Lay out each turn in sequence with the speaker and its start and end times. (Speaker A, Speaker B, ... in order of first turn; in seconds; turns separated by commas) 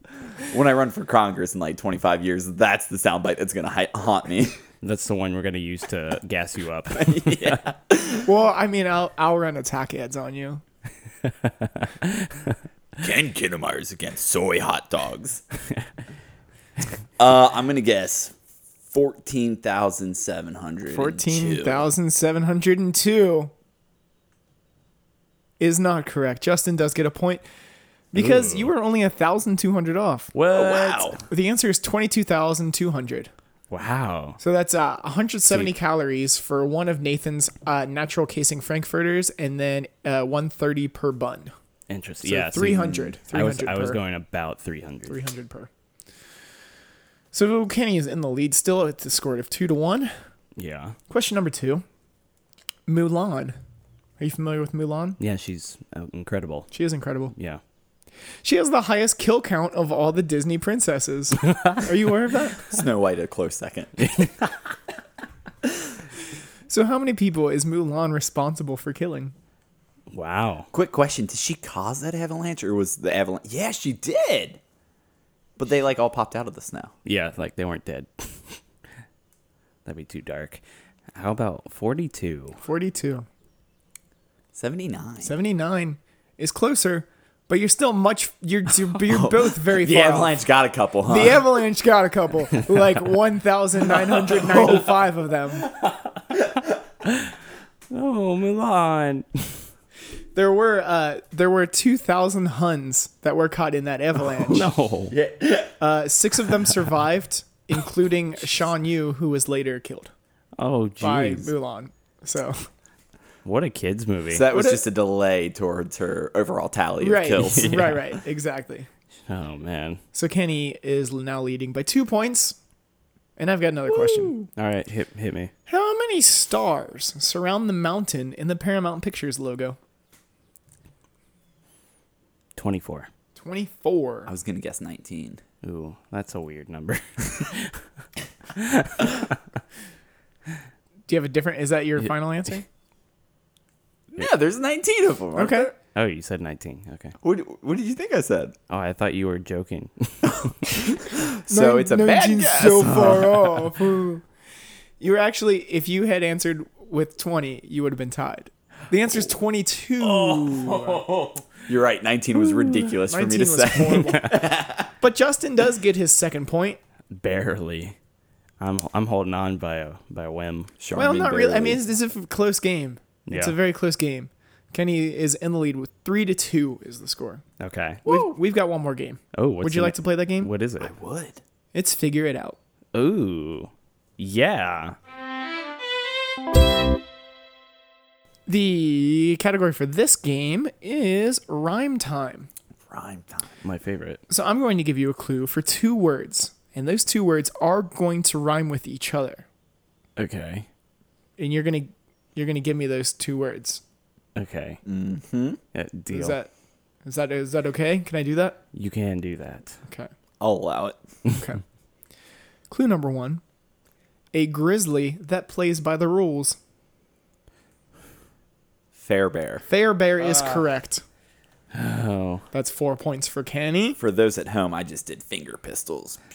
Speaker A: 0.5-4.6, Speaker B: 4.8-7.6, Speaker A: 7.0-8.2, Speaker C: 8.2-10.6, Speaker B: 11.4-12.5, Speaker A: 13.0-15.4, Speaker A: 17.2-18.3, Speaker A: 18.9-21.9, Speaker C: 20.9-23.5, Speaker C: 25.6-27.4, Speaker C: 28.1-30.3, Speaker B: 28.1-28.7, Speaker B: 30.3-31.2, Speaker A: 30.5-31.2, Speaker C: 31.2-33.3, Speaker B: 33.7-34.4, Speaker C: 34.4-41.5, Speaker B: 41.9-45.2, Speaker C: 42.2-44.0, Speaker C: 45.1-45.7, Speaker C: 47.3-50.1, Speaker B: 50.5-51.0, Speaker C: 51.1-51.8, Speaker C: 52.9-53.6, Speaker C: 54.2-55.2, Speaker B: 55.2-56.7, Speaker C: 56.7-57.3, Speaker B: 57.3-57.6, Speaker C: 58.4-62.7, Speaker A: 62.7-64.1, Speaker B: 64.1-64.5, Speaker C: 66.7-69.3, Speaker B: 70.1-70.7, Speaker A: 70.7-74.6, Speaker A: 75.6-76.9, Speaker B: 77.0-78.6, Speaker B: 79.8-80.6, Speaker B: 81.1-82.6, Speaker C: 82.6-83.2, Speaker A: 84.5-85.3, Speaker C: 85.2-90.4, Speaker A: 89.1-91.4, Speaker C: 91.1-95.7, Speaker B: 97.0-97.3, Speaker B: 97.9-99.6, Speaker C: 100.3-104.7, Speaker B: 104.3-105.2, Speaker A: 105.1-105.7, Speaker C: 105.8-110.1, Speaker B: 110.6-111.5, Speaker C: 111.0-112.7, Speaker B: 113.4-114.4, Speaker A: 114.3-117.8, Speaker C: 114.5-114.8, Speaker C: 117.0-118.9, Speaker B: 117.4-118.0, Speaker B: 119.3-120.0, Speaker C: 120.1-122.6, Speaker C: 123.4-124.4, Speaker B: 124.5-125.5, Speaker C: 125.7-129.8, Speaker B: 132.6-133.1, Speaker C: 133.3-134.3, Speaker A: 134.3-135.4, Speaker B: 135.6-137.8, Speaker B: 138.5-139.3, Speaker C: 141.1-142.7, Speaker A: 144.1-145.7, Speaker C: 145.3-145.7, Speaker B: 145.9-147.1, Speaker A: 147.2-148.6, Speaker B: 148.7-150.7, Speaker A: 150.9-153.6, Speaker C: 151.5-154.2, Speaker C: 155.0-161.0, Speaker B: 160.0-161.5, Speaker A: 161.7-164.9, Speaker C: 163.1-164.4, Speaker C: 165.0-166.8, Speaker B: 167.1-167.9, Speaker B: 168.6-170.7, Speaker A: 170.8-171.8, Speaker C: 170.9-177.4, Speaker B: 173.2-173.6, Speaker B: 177.6-178.0, Speaker C: 178.0-180.5, Speaker B: 179.3-180.9, Speaker A: 180.8-181.4, Speaker C: 181.7-182.6, Speaker B: 182.9-184.9, Speaker C: 188.5-192.5, Speaker A: 192.9-193.5, Speaker B: 193.6-194.2, Speaker C: 194.3-199.4, Speaker B: 200.2-200.7, Speaker C: 201.4-203.8, Speaker B: 204.3-204.8, Speaker A: 204.8-205.6, Speaker B: 205.7-206.4, Speaker C: 206.1-206.5, Speaker C: 207.0-208.6, Speaker B: 208.7-209.8, Speaker A: 210.4-211.0, Speaker C: 211.3-211.6, Speaker C: 212.7-213.4, Speaker C: 214.3-216.6, Speaker A: 218.9-219.6, Speaker C: 219.7-221.0, Speaker B: 221.7-222.4, Speaker C: 222.5-224.0, Speaker A: 224.0-226.2